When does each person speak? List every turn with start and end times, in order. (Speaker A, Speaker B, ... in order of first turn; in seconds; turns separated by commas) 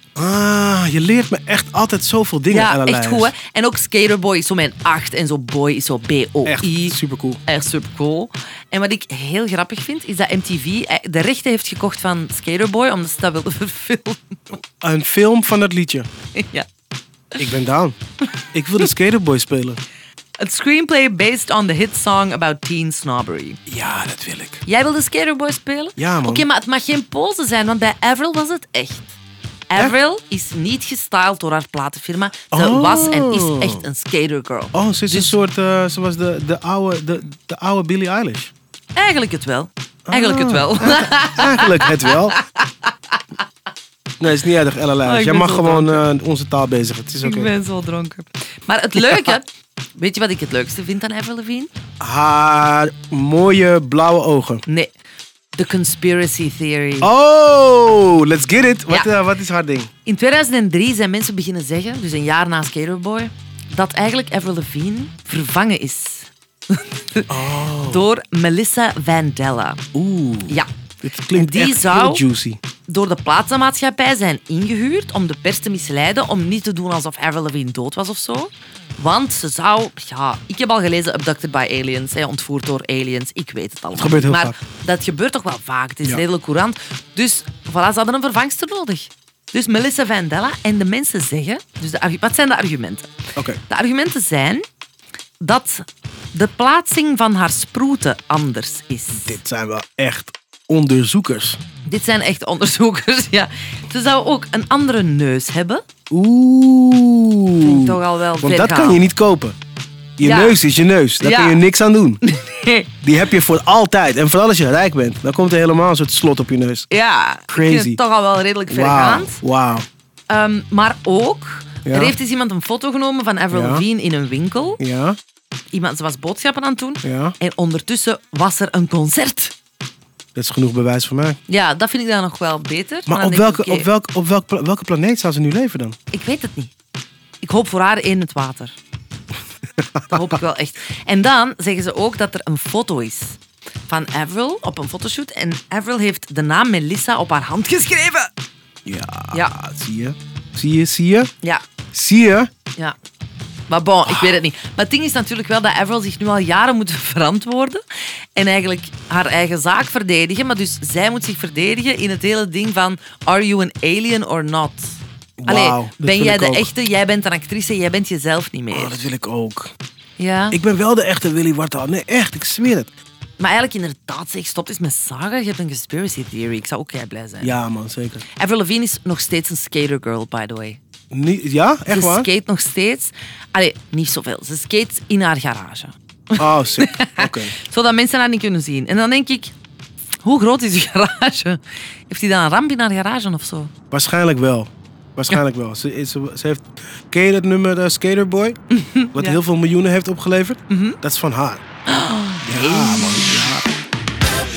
Speaker A: 0.1-3.3, Speaker B: 2.5-14.6, Speaker A: 6.5-7.4, Speaker A: 14.8-16.1, Speaker B: 16.4-16.7, Speaker A: 17.4-18.0, Speaker A: 18.5-19.8, Speaker B: 20.4-23.6, Speaker A: 23.7-24.6, Speaker B: 24.7-29.1, Speaker A: 26.0-26.5, Speaker B: 29.7-35.4, Speaker A: 32.5-33.8, Speaker A: 34.7-38.5, Speaker B: 39.0-42.9, Speaker A: 40.1-42.4, Speaker A: 44.2-47.5, Speaker B: 45.0-46.0, Speaker B: 47.2-51.7, Speaker A: 49.0-49.3, Speaker A: 52.0-54.6, Speaker B: 54.7-54.9, Speaker B: 55.5-57.1, Speaker A: 57.0-59.9, Speaker B: 60.0-69.8, Speaker A: 67.3-68.1, Speaker A: 69.9-72.6, Speaker B: 71.3-72.2, Speaker B: 72.9-93.1, Speaker A: 83.9-84.6, Speaker B: 93.7-94.6, Speaker B: 95.4-99.4, Speaker A: 99.2-101.6, Speaker B: 101.9-105.8, Speaker A: 106.1-109.6, Speaker B: 107.6-109.0, Speaker A: 110.2-112.2, Speaker B: 110.2-110.6, Speaker B: 111.2-111.6, Speaker B: 112.2-112.9, Speaker A: 113.0-116.9, Speaker B: 116.9-119.4, Speaker A: 117.5-118.0, Speaker A: 118.7-119.9, Speaker B: 120.3-124.8, Speaker A: 121.9-122.2, Speaker A: 123.5-123.8, Speaker A: 124.8-125.2, Speaker B: 125.7-129.6, Speaker A: 127.0-127.3, Speaker A: 130.3-131.4, Speaker B: 131.5-133.9, Speaker A: 133.1-136.0, Speaker B: 136.1-136.7, Speaker B: 137.4-138.8, Speaker A: 140.0-140.3, Speaker B: 140.1-148.3, Speaker A: 148.8-151.3, Speaker A: 151.9-152.5, Speaker B: 153.7-157.8, Speaker A: 154.1-154.4, Speaker B: 158.3-169.1, Speaker A: 165.4-166.7, Speaker A: 168.7-169.7, Speaker B: 170.2-170.6, Speaker A: 170.5-172.9, Speaker B: 173.4-177.6, Speaker A: 177.4-178.2, Speaker B: 178.4-180.8, Speaker A: 181.1-182.3, Speaker B: 181.9-189.5, Speaker A: 186.4-187.6, Speaker B: 190.2-193.7, Speaker A: 193.9-198.6, Speaker B: 198.7-199.4, Speaker A: 199.1-201.6, Speaker B: 200.7-201.0, Speaker B: 201.9-203.5, Speaker A: 202.4-203.7